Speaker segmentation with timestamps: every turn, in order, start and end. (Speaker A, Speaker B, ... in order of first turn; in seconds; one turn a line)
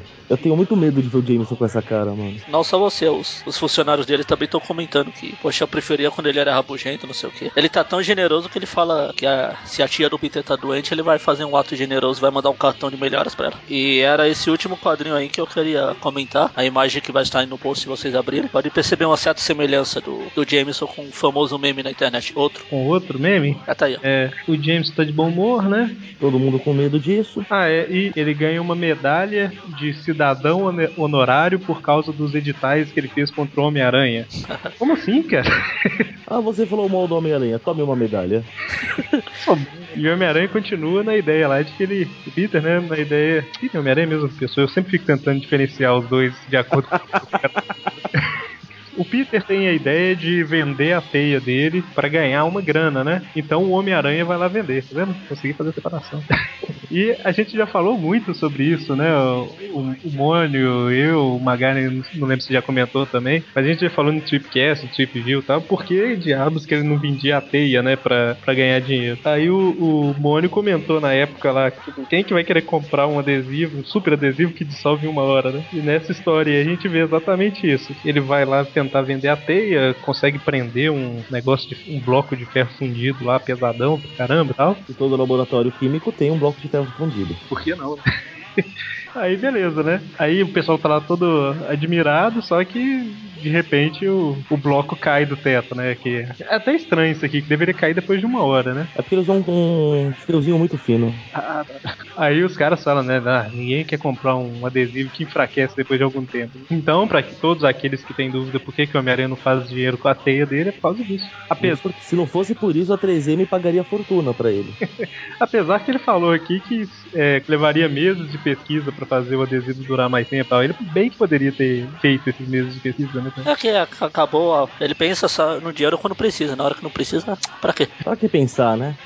Speaker A: 0.3-2.4
Speaker B: 2.5-22.6
Speaker C: 22.7-26.0
Speaker B: 23.7-24.0
Speaker A: 26.2-27.5
Speaker C: 27.5-34.3
Speaker C: 34.8-36.0
Speaker A: 36.3-38.5
Speaker B: 39.0-39.2
Speaker C: 39.4-47.5
Speaker C: 48.9-56.3
Speaker C: 56.9-84.8
Speaker A: 84.9-87.4
Speaker C: 87.5-88.0
Speaker C: 89.2-98.9
Speaker A: 99.0-101.2
Speaker C: 101.3-111.8
Speaker A: 111.6-114.8
Speaker C: 114.8-123.5
Speaker B: 123.4-127.9
Speaker A: 128.0-129.0